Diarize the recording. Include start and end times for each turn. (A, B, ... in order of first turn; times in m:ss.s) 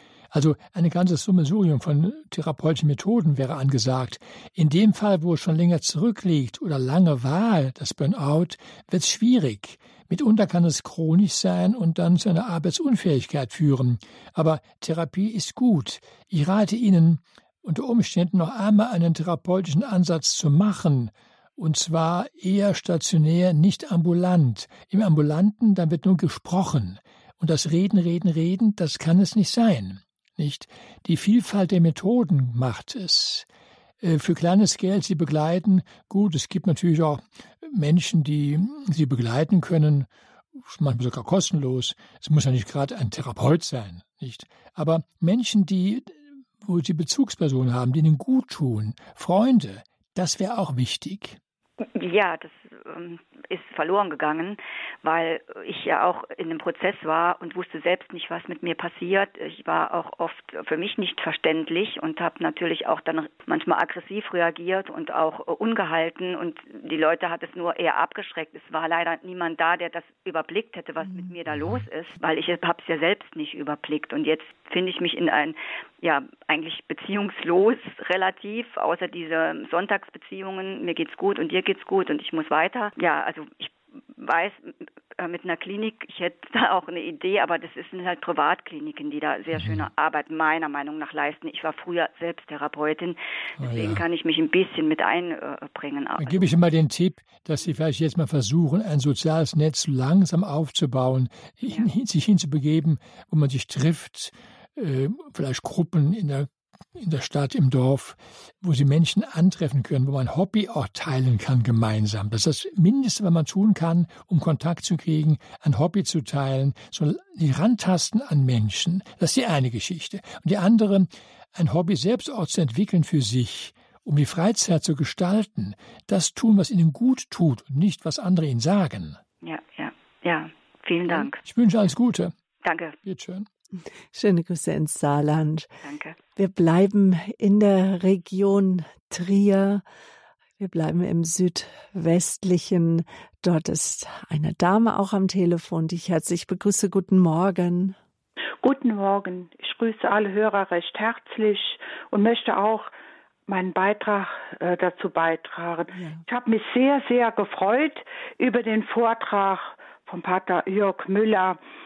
0:00.3-0:33.5 A
0:34.0-0:40.1 A
0:40.6-0:51.4 A
0:51.9-1:36.5 B
1:33.6-1:34.0 A
1:36.2-2:09.2 A
2:09.4-2:11.4 B
2:11.1-2:12.3 A
2:12.6-2:13.0 B
2:13.0-2:13.4 A
2:14.1-2:15.7 C
2:15.8-2:16.2 B
2:16.4-2:19.8 C
2:20.6-2:28.0 C
2:28.6-2:32.9 D
2:33.5-2:41.6 D
2:35.9-2:36.2 C